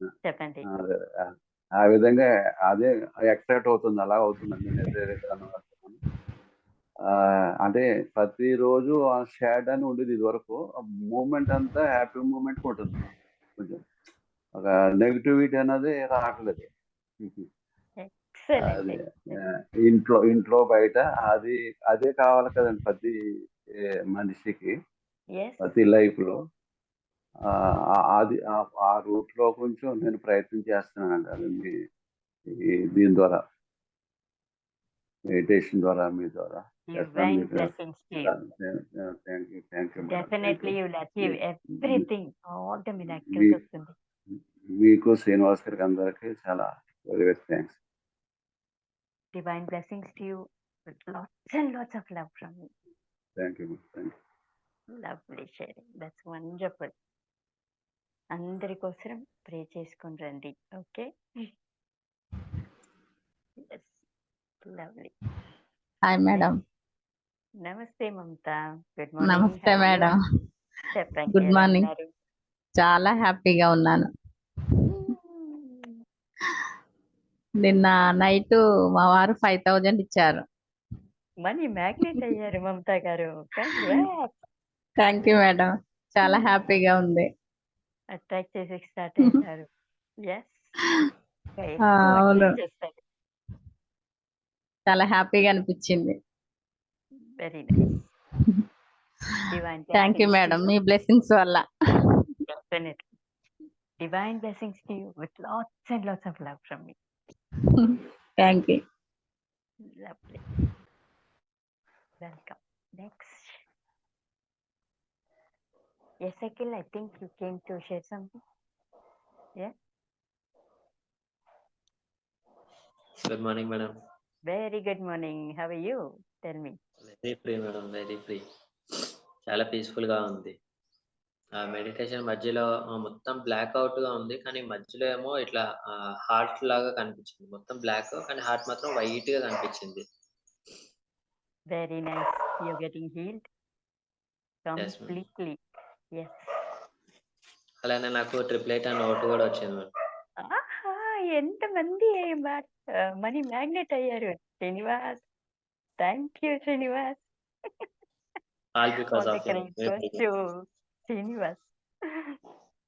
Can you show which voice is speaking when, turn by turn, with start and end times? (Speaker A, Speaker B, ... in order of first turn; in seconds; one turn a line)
Speaker A: 0.2-0.7
Speaker B: 0.7-6.0
Speaker B: 7.1-10.6
Speaker B: 11.1-13.0
Speaker B: 13.6-13.8
Speaker B: 14.6-16.7
Speaker A: 18.0-19.4
Speaker B: 18.6-19.1
Speaker B: 19.9-23.1
Speaker B: 24.1-24.7
Speaker A: 25.4-25.7
Speaker B: 25.6-26.4
Speaker B: 28.1-31.7
Speaker B: 32.5-33.4
Speaker B: 35.3-37.7
Speaker A: 36.9-38.3
Speaker B: 38.2-42.0
Speaker A: 40.0-44.0
Speaker B: 43.3-43.6
Speaker B: 44.3-47.8
Speaker A: 49.3-52.7
Speaker B: 53.4-54.1
Speaker A: 54.9-56.9
Speaker A: 58.3-61.5
Speaker A: 63.6-64.0
Speaker A: 64.6-65.1
Speaker C: 66.1-66.6
Speaker A: 67.6-70.1
Speaker C: 69.2-70.2
Speaker A: 70.9-72.1
Speaker C: 71.3-71.9
Speaker C: 72.8-74.1
Speaker A: 74.9-76.0
Speaker C: 77.6-80.4
Speaker A: 81.4-84.4
Speaker C: 85.0-87.3
Speaker A: 86.2-86.5
Speaker A: 88.1-89.7
Speaker A: 90.2-90.8
Speaker A: 91.6-93.0
Speaker C: 91.8-92.6
Speaker C: 94.9-96.2
Speaker A: 97.4-98.1
Speaker A: 99.5-100.7
Speaker C: 99.9-101.7
Speaker A: 102.5-103.1
Speaker A: 104.0-107.0
Speaker C: 107.8-108.8
Speaker A: 109.9-110.4
Speaker A: 112.2-113.6
Speaker A: 116.2-118.4
Speaker D: 123.3-123.9
Speaker A: 124.5-126.8
Speaker D: 127.0-128.4
Speaker D: 129.5-130.6
Speaker D: 131.6-140.0
Speaker A: 141.7-143.5
Speaker A: 144.7-145.6
Speaker D: 144.8-145.2
Speaker A: 146.2-146.5
Speaker D: 147.8-149.9
Speaker A: 150.4-155.2
Speaker A: 156.0-157.3
Speaker D: 158.8-160.2
Speaker A: 159.1-160.5
Speaker A: 161.1-161.7